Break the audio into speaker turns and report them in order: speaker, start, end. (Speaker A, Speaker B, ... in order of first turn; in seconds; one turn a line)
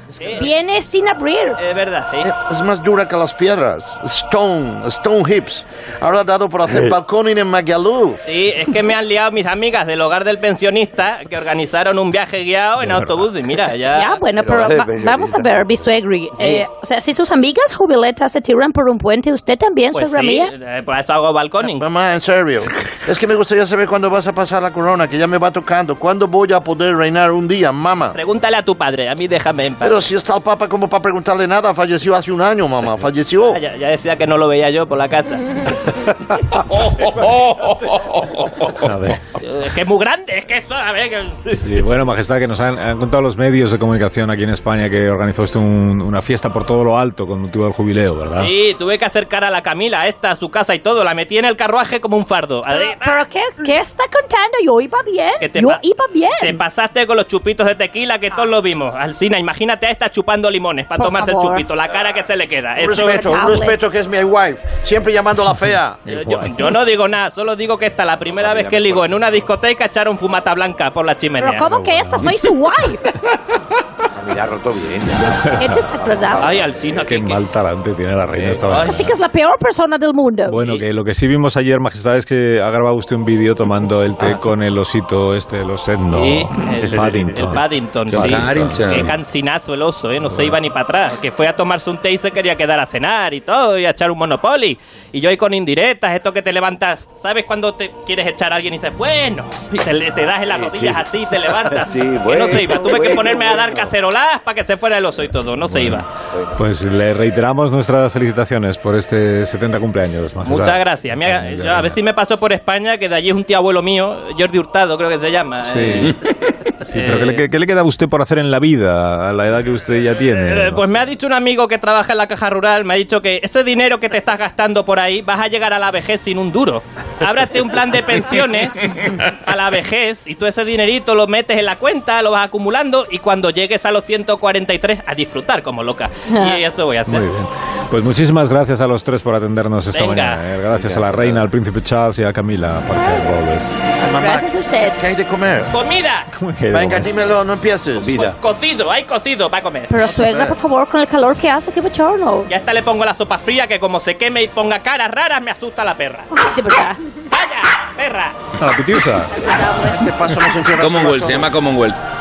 Speaker A: 0.2-0.5
Speaker B: 0.3-1.6
Speaker A: 1.6-2.3
Speaker C: 2.2-8.2
Speaker A: 8.3-14.2
Speaker D: 12.8-13.3
Speaker B: 13.9-20.5
Speaker E: 14.4-15.5
Speaker A: 16.4-16.7
Speaker A: 19.9-21.8
Speaker C: 21.6-28.2
Speaker A: 28.1-30.0
Speaker C: 29.8-33.6
Speaker A: 33.5-35.7
Speaker D: 38.7-39.2
Speaker A: 39.4-41.5
Speaker D: 41.5-48.5
Speaker A: 48.4-53.2
Speaker B: 52.7-56.6
Speaker A: 55.4-55.8
Speaker A: 56.4-63.2
Speaker B: 61.0-61.7
Speaker C: 62.8-66.1
Speaker B: 62.9-63.8
Speaker D: 66.1-66.8
Speaker A: 66.1-71.7
Speaker E: 68.4-69.2
Speaker B: 71.4-73.0
Speaker D: 71.7-72.4
Speaker E: 74.1-76.8
Speaker D: 75.4-75.9
Speaker B: 75.5-76.6
Speaker A: 76.4-77.4
Speaker D: 76.9-79.1
Speaker E: 78.3-78.9
Speaker A: 78.7-79.0
Speaker B: 78.8-80.7
Speaker D: 80.5-89.2
Speaker A: 86.1-106.1
Speaker F: 88.2-89.1
Speaker D: 90.2-90.6
Speaker E: 100.5-103.9
Speaker D: 105.7-106.0
Speaker E: 106.3-106.6
Speaker D: 106.5-112.0
Speaker A: 110.5-116.1
Speaker D: 115.6-116.2
Speaker D: 116.8-120.9
Speaker A: 116.9-117.4
Speaker A: 120.3-137.2
Speaker B: 136.3-136.6
Speaker D: 137.1-143.8
Speaker A: 139.9-140.4
Speaker E: 140.7-141.5
Speaker B: 144.0-145.0
Speaker C: 144.0-145.7
Speaker A: 145.7-146.3
Speaker D: 146.3-147.3
Speaker C: 146.7-148.1
Speaker E: 148.0-148.4
Speaker A: 148.1-149.9
Speaker B: 149.9-152.5
Speaker C: 150.1-150.6
Speaker A: 152.5-156.3
Speaker B: 156.3-157.0
Speaker A: 157.3-158.3
Speaker D: 158.6-159.5
Speaker B: 159.4-160.0
Speaker C: 159.8-161.5
Speaker F: 160.8-162.0